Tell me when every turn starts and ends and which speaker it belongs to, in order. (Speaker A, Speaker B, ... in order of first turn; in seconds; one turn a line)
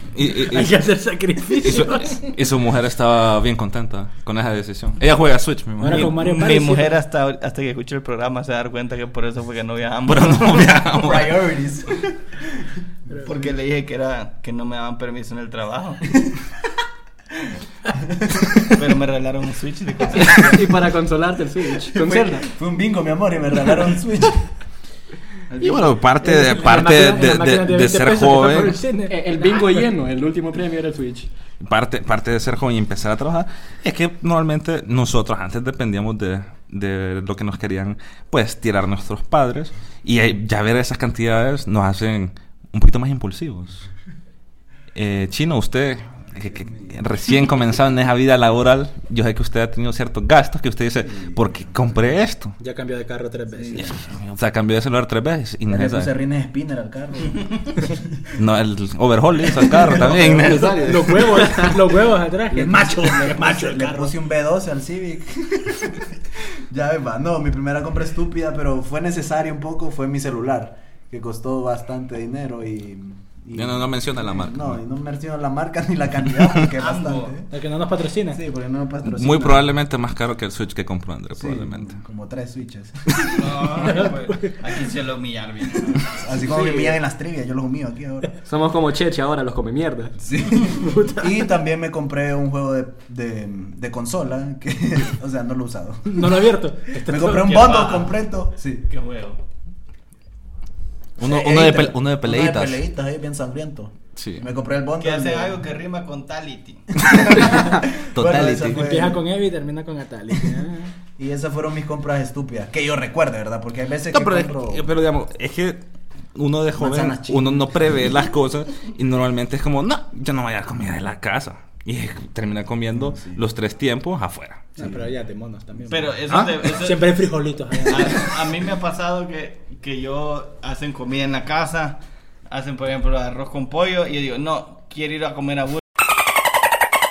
Speaker A: 0.1-0.8
Speaker B: 0.5-2.3
Speaker A: 1.6-6.2
Speaker B: 5.8-7.0
Speaker C: 5.9-10.8
Speaker A: 10.1-11.5
Speaker D: 11.0-12.7
Speaker C: 13.2-16.2
Speaker C: 18.6-20.7
Speaker E: 20.2-22.5
Speaker D: 21.9-24.5
Speaker C: 25.5-26.0
Speaker A: 25.6-28.8
Speaker B: 26.2-29.2
Speaker E: 29.1-31.3
Speaker A: 31.6-43.9
Speaker A: 44.9-52.6
Speaker D: 51.1-51.4
Speaker B: 52.6-54.0
Speaker D: 53.6-53.9
Speaker A: 53.8-56.1
Speaker D: 55.7-58.0
Speaker A: 58.4-61.3
Speaker D: 59.6-61.0
Speaker B: 60.0-64.1
Speaker E: 61.4-61.7
Speaker D: 62.5-77.5
Speaker A: 73.5-74.8
Speaker C: 76.8-77.4
Speaker B: 77.5-78.4
Speaker D: 78.3-79.7
Speaker A: 79.1-82.0
Speaker D: 81.3-83.5
Speaker C: 83.3-86.1
Speaker B: 83.9-84.5
Speaker D: 86.1-88.3
Speaker E: 88.5-90.1
Speaker D: 90.2-96.4
Speaker B: 90.7-91.4
Speaker B: 96.1-97.7
Speaker D: 97.0-98.9
Speaker C: 97.4-98.2
Speaker C: 98.9-99.4
Speaker A: 101.2-102.8
Speaker D: 101.2-105.7
Speaker A: 104.2-104.5
Speaker C: 105.0-107.0
Speaker D: 107.0-109.2
Speaker A: 107.4-108.8
Speaker B: 108.8-110.9
Speaker D: 111.2-114.9
Speaker A: 114.1-115.8
Speaker A: 116.3-124.7
Speaker D: 116.8-118.1
Speaker D: 122.9-123.4
Speaker B: 124.8-128.4
Speaker D: 124.8-125.1
Speaker C: 125.9-127.3
Speaker A: 126.3-126.6
Speaker C: 127.8-135.8